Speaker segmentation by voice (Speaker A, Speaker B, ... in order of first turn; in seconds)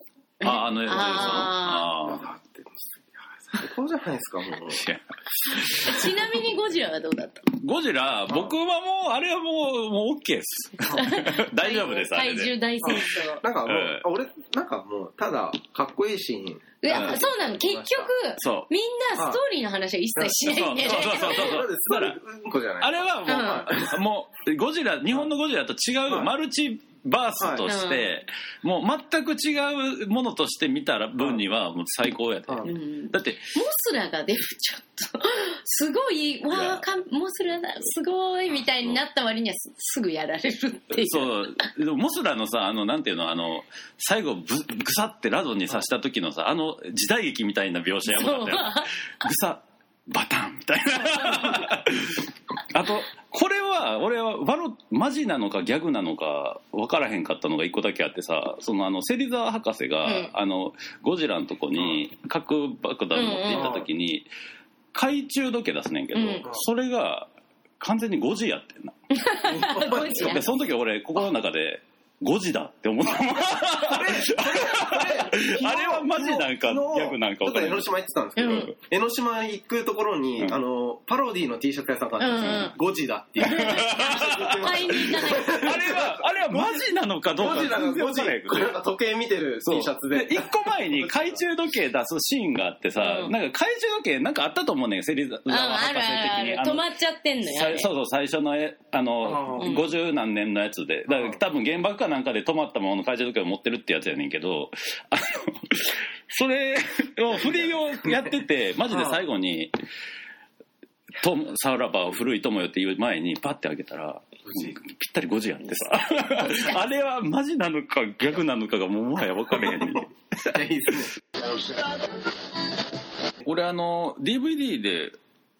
Speaker A: 0.4-1.9, 5.7-7.5, 10.8-13.4, 16.8-21.6, 23.2-23.7, 27.6-28.1, 32.6-41.6, 48.1-48.9, 51.0-51.6, 60.0-60.3, 63.1-63.7, 66.1-66.5, 69.1-70.5, 78.4-78.7, 82.2-82.7, 83.4-85.7, 93.0-93.3, 95.5-97.9, 99.6-99.9, 116.4-116.7
Speaker B: 0.4-2.2, 4.7-6.1, 7.6-13.0, 13.6-14.0, 16.9-17.2, 18.4-18.7, 20.5-22.2, 22.8-33.5, 36.5-36.8, 40.9-64.3, 64.9-69.0, 70.2-77.9, 83.4-88.7, 89.6-96.8, 97.4-109.7, 111.2-120.6, 123.4-125.1
Speaker C: 1.0-4.8, 12.8-18.1, 19.1-19.4, 20.1-24.0, 27.4-27.7, 63.5-63.9, 69.4-70.4, 73.8-86.8, 87.4-91.2, 99.2-99.8, 101.1-101.4, 108.9-109.2, 114.5-114.7, 120.5-121.1